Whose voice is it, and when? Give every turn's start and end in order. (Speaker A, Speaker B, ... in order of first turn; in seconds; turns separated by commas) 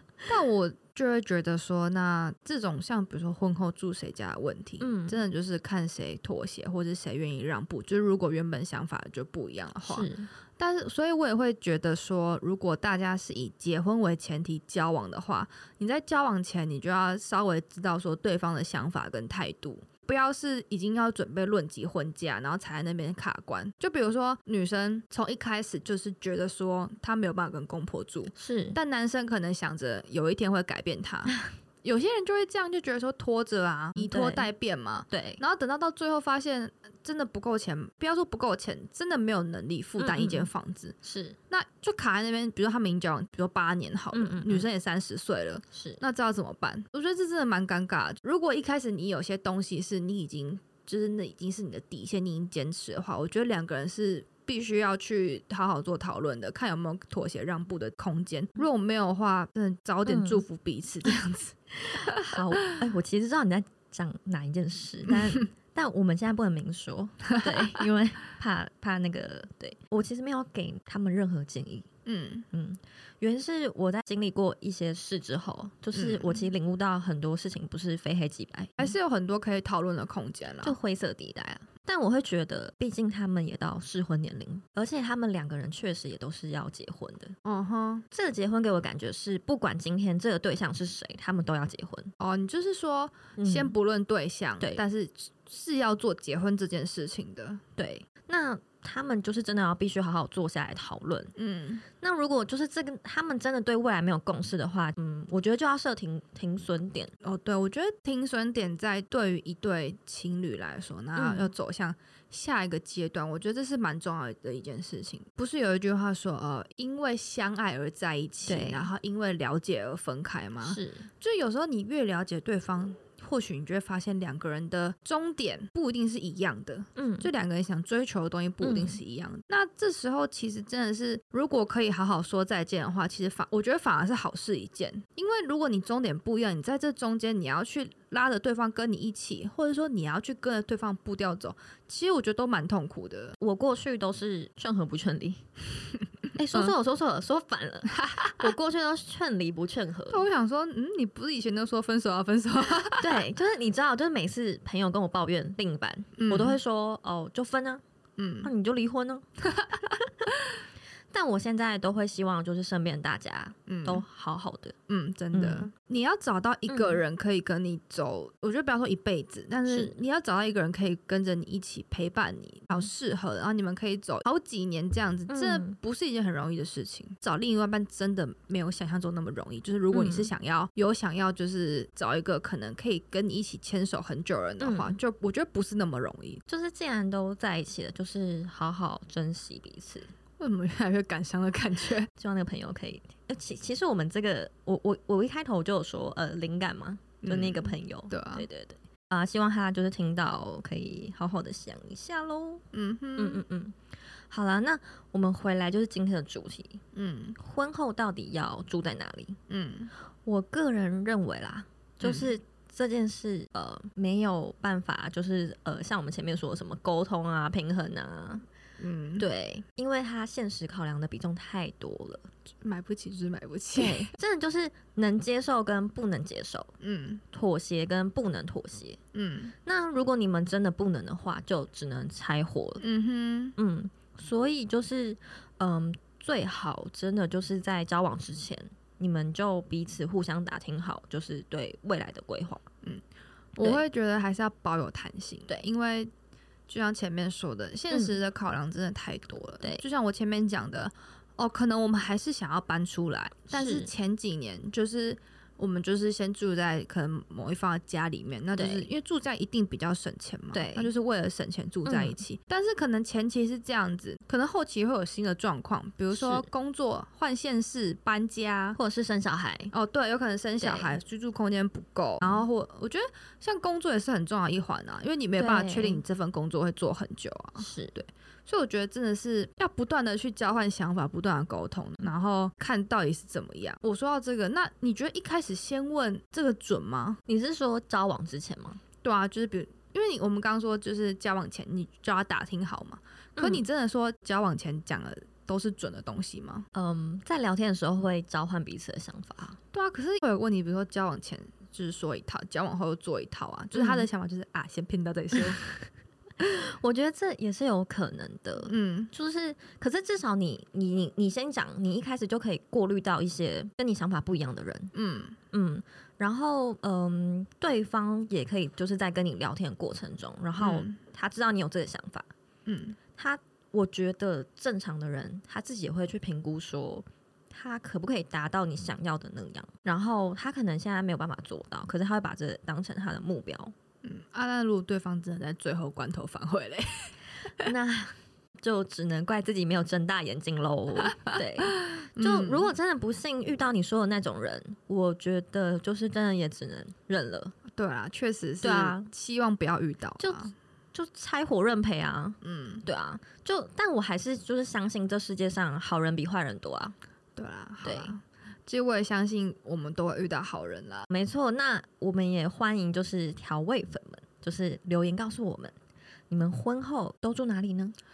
Speaker A: 0.2-41.0, Speaker B: 4.8-5.2, Speaker B: 9.8-10.3, Speaker B: 28.3-28.8, Speaker B: 31.3-31.5, Speaker B: 34.0-34.5, Speaker B: 35.1-35.4, Speaker B: 40.0-40.5, Speaker B: 41.0-41.4, Speaker A: 41.5-61.6, Speaker B: 44.1-44.7, Speaker B: 45.7-46.0, Speaker B: 60.0-60.4, Speaker B: 61.7-71.9, Speaker A: 72.0-72.5, Speaker B: 72.5-78.9, Speaker A: 75.9-76.5, Speaker A: 78.8-80.7, Speaker B: 80.6-87.3, Speaker A: 87.4-88.0, Speaker B: 88.1-92.1, Speaker A: 92.2-97.6, Speaker B: 93.4-93.7, Speaker B: 97.8-101.3, Speaker A: 101.3-101.8, Speaker B: 101.9-107.1, Speaker A: 107.2-143.4, Speaker B: 111.2-111.5, Speaker B: 118.5-118.9, Speaker B: 120.6-121.1, Speaker B: 127.0-127.3, Speaker B: 128.6-129.0, Speaker B: 143.4-145.4, Speaker B: 146.3-150.2, Speaker A: 148.0-148.4, Speaker A: 150.1-153.2, Speaker B: 153.0-157.8, Speaker A: 156.2-156.6, Speaker A: 158.2-158.5, Speaker B: 158.4-159.3, Speaker A: 159.5-159.8, Speaker B: 161.1-164.7, Speaker A: 163.7-164.0, Speaker A: 164.9-186.4, Speaker B: 165.3-165.7, Speaker B: 166.7-167.0, Speaker B: 169.7-169.9, Speaker B: 175.3-175.8, Speaker B: 179.9-180.3, Speaker B: 184.6-185.0, Speaker B: 186.5-190.1, Speaker A: 190.4-192.1, Speaker B: 192.2-202.6, Speaker A: 197.2-198.5, Speaker A: 202.7-203.4, Speaker B: 203.2-206.8, Speaker A: 206.9-207.4, Speaker B: 207.4-209.4, Speaker A: 209.5-209.9, Speaker B: 210.2-218.4, Speaker A: 212.0-212.3, Speaker A: 218.8-219.2, Speaker B: 219.2-222.3, Speaker A: 222.6-224.1, Speaker B: 223.7-226.7, Speaker A: 226.8-227.2, Speaker B: 227.3-229.0, Speaker A: 229.1-229.5, Speaker B: 229.6-232.8, Speaker A: 232.8-233.6, Speaker B: 233.6-242.6, Speaker A: 243.6-246.1, Speaker A: 246.7-268.8, Speaker B: 253.5-253.9, Speaker B: 258.6-258.9, Speaker B: 260.5-260.9, Speaker B: 261.8-262.2, Speaker B: 266.1-266.5, Speaker B: 268.8-269.7, Speaker A: 269.7-287.2, Speaker B: 270.6-270.9, Speaker B: 275.4-276.0, Speaker B: 277.6-277.9, Speaker B: 287.2-288.8, Speaker A: 289.0-296.7, Speaker B: 293.4-293.6, Speaker B: 296.7-299.6, Speaker A: 299.7-305.7, Speaker B: 303.7-304.1, Speaker B: 306.4-314.9, Speaker A: 308.7-309.1, Speaker A: 314.9-315.4, Speaker B: 315.5-322.3, Speaker A: 320.6-321.0, Speaker A: 322.6-322.9, Speaker B: 323.2-333.7, Speaker A: 334.0-337.7, Speaker B: 337.6-347.5, Speaker A: 341.1-341.4, Speaker A: 341.9-342.7, Speaker A: 347.7-350.5, Speaker B: 348.6-349.1, Speaker B: 350.2-356.9, Speaker A: 352.4-352.8, Speaker A: 357.4-361.1, Speaker B: 357.8-358.1, Speaker B: 361.1-365.7, Speaker B: 366.3-367.9